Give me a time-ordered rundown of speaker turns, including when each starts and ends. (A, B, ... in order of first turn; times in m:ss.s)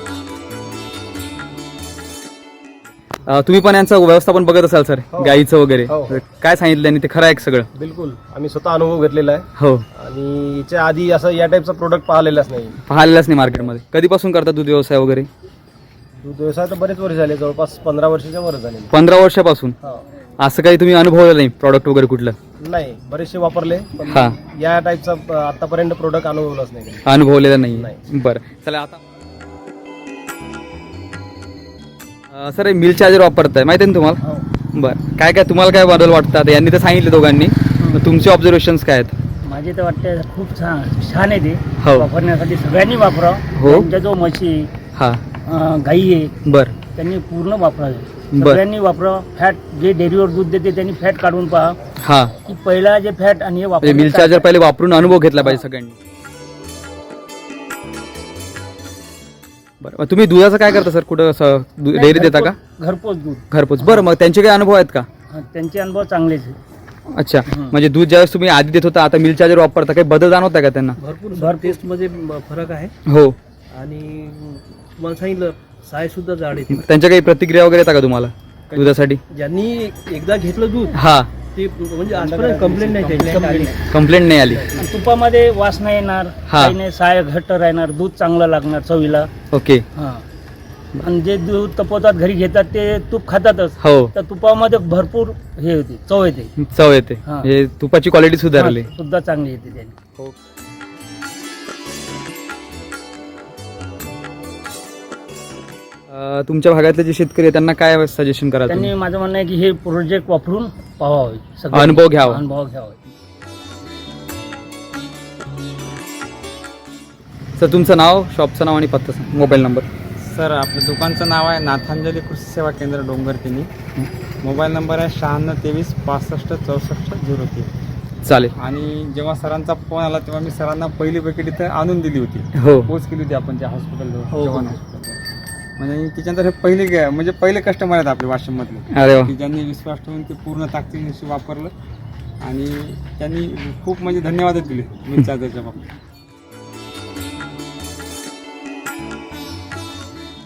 0:03.2-0:07.7 A
0:05.1-0:05.4 B
0:05.9-0:06.2 B
0:07.8-0:09.4 B
0:09.6-0:09.8 A
0:10.0-0:12.7 B
0:12.9-0:15.3 A
0:16.2-0:18.9 B
0:18.9-0:19.7 A
0:20.4-0:22.4 A
0:22.6-0:27.0 B
0:24.1-0:24.4 A
0:27.1-0:29.0 A
0:32.3-0:34.2 A
0:34.7-0:39.1 A
0:39.4-0:44.7 C
0:41.8-0:42.1 A
0:43.6-0:43.9 A
0:45.0-0:45.2 A
0:45.4-0:46.3 C
0:46.4-0:46.7 A
0:46.9-0:51.8 C
0:48.3-0:48.6 A
0:52.0-0:52.3 A
0:52.4-0:54.5 C
0:53.8-0:56.0 A
0:59.8-1:02.6 A
1:01.9-1:04.0 C
1:03.5-1:05.1 A
1:05.3-1:06.6 C
1:07.1-1:11.0 A
1:07.5-1:07.8 C
1:11.0-1:12.9 D
1:11.3-1:11.8 C
1:13.1-1:13.4 A
1:13.7-1:16.9 D
1:16.7-1:19.2 A
1:19.3-1:21.0 D
1:20.9-1:21.3 A
1:21.5-1:23.9 D
1:22.7-1:23.1 E
1:23.9-1:24.6 A
1:24.5-1:24.8 D
1:24.7-1:29.3 C
1:26.5-1:26.7 A
1:29.5-1:29.8 A
1:29.9-1:30.2 C
1:31.0-1:36.5 C
1:33.8-1:34.1 A
1:36.6-1:38.8 A
1:37.2-1:37.5 C
1:38.5-1:39.9 C
1:46.1-1:48.9 A
1:48.7-1:53.0 C
1:51.7-1:52.4 A
1:57.6-1:59.8 A
2:00.2-2:03.7 E
2:04.4-2:07.7 E
2:08.2-2:08.5 A
2:08.6-2:15.2 E
2:12.5-2:12.9 A
2:14.3-2:14.7 D
2:15.8-2:21.7 E
2:18.9-2:19.3 A
2:22.4-2:25.9 E